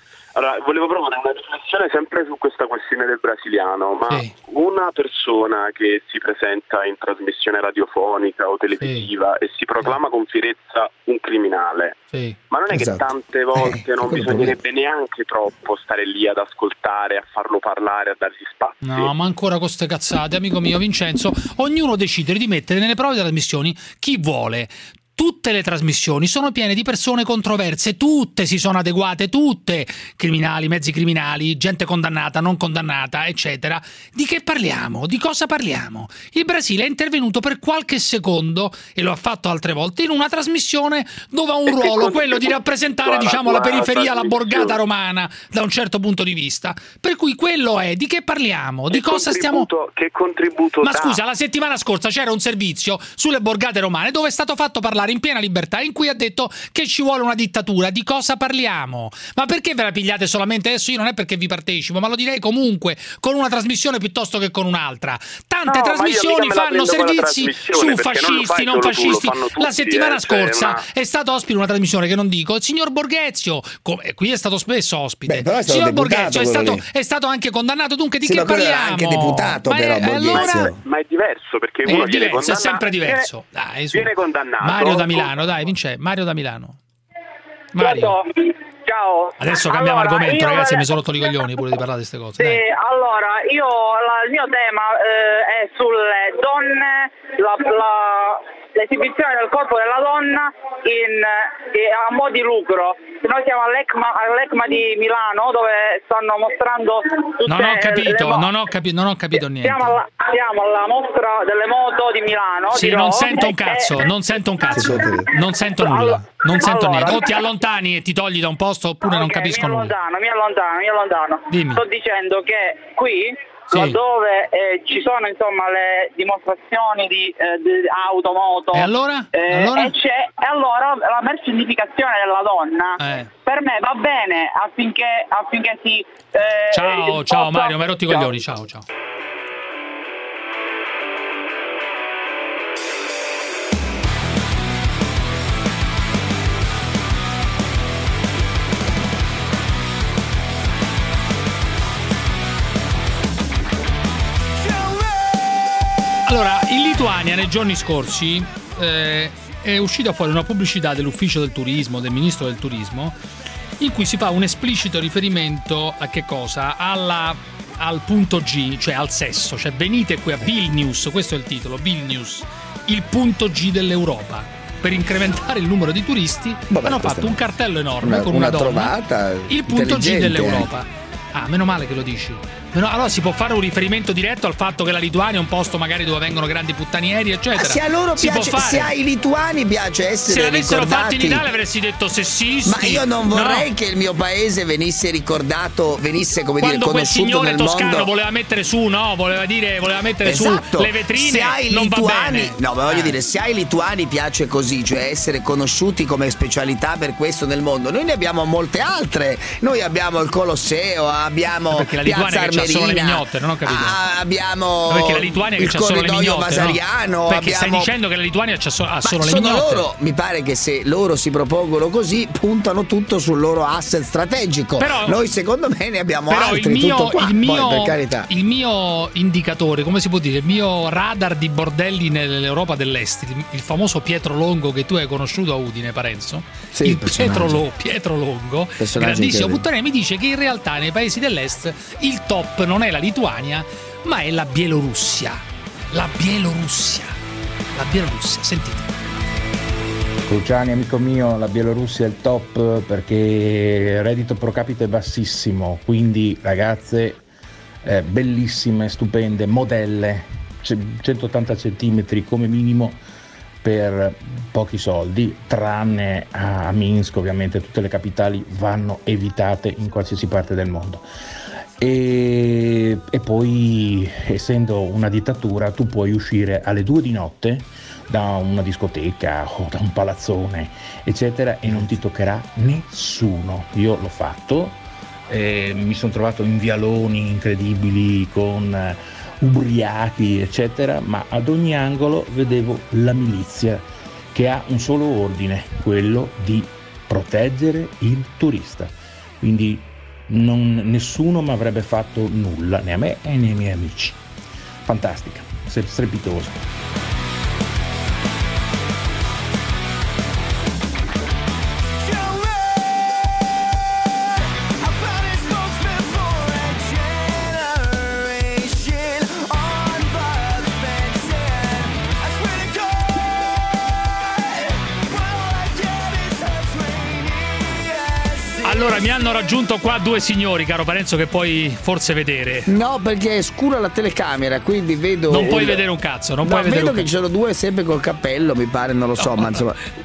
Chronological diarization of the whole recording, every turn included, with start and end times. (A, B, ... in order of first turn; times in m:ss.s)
0:00.4-0:12.0 A
0:08.8-0:09.1 B
0:12.1-0:12.4 B
0:12.5-0:19.1 A
0:12.7-0:14.6 C
0:18.8-0:49.7 B
0:41.7-0:42.4 A
0:43.0-0:44.7 A
0:49.9-0:50.4 A
0:50.8-1:20.7 B
1:05.7-1:10.8 A
1:15.3-1:16.8 C
1:18.2-1:20.8 C
1:20.3-1:23.2 A
1:21.9-1:26.8 B
1:23.9-1:25.4 A
1:27.8-1:28.2 B
1:27.8-1:31.4 D
1:29.4-1:32.6 B
1:32.4-1:48.5 D
1:47.4-1:50.0 B
1:49.4-1:54.1 D
1:52.7-2:00.0 B
1:54.7-1:55.3 C
1:55.7-1:57.5 D
1:59.0-2:18.4 D
2:01.5-2:01.8 B
2:03.7-2:04.0 B
2:08.7-2:10.0 B
2:13.0-2:13.3 B
2:16.7-2:18.8 B
2:36.3-2:43.2 B
2:43.8-2:59.0 B
2:56.7-2:57.4 C
2:58.0-3:00.7 C
2:59.5-3:08.9 B
3:07.6-3:11.5 C
3:10.3-3:13.7 B
3:12.6-3:18.1 C
3:16.6-3:23.2 B
3:20.2-3:37.9 C
3:31.7-3:34.0 B
3:34.9-3:39.8 B
3:39.0-3:48.3 C
3:44.8-3:45.2 B
3:46.3-4:07.2 B
3:56.7-3:57.6 C
3:58.8-3:59.6 C
4:07.7-4:08.9 B
4:10.3-4:17.2 E
4:17.8-4:23.0 E
4:23.6-4:31.0 E
4:31.8-5:04.2 E
5:04.8-5:06.6 E
5:28.6-5:32.7 B
5:32.7-5:35.8 C
5:35.3-5:37.1 B
5:36.4-5:39.8 C
5:39.2-5:39.6 B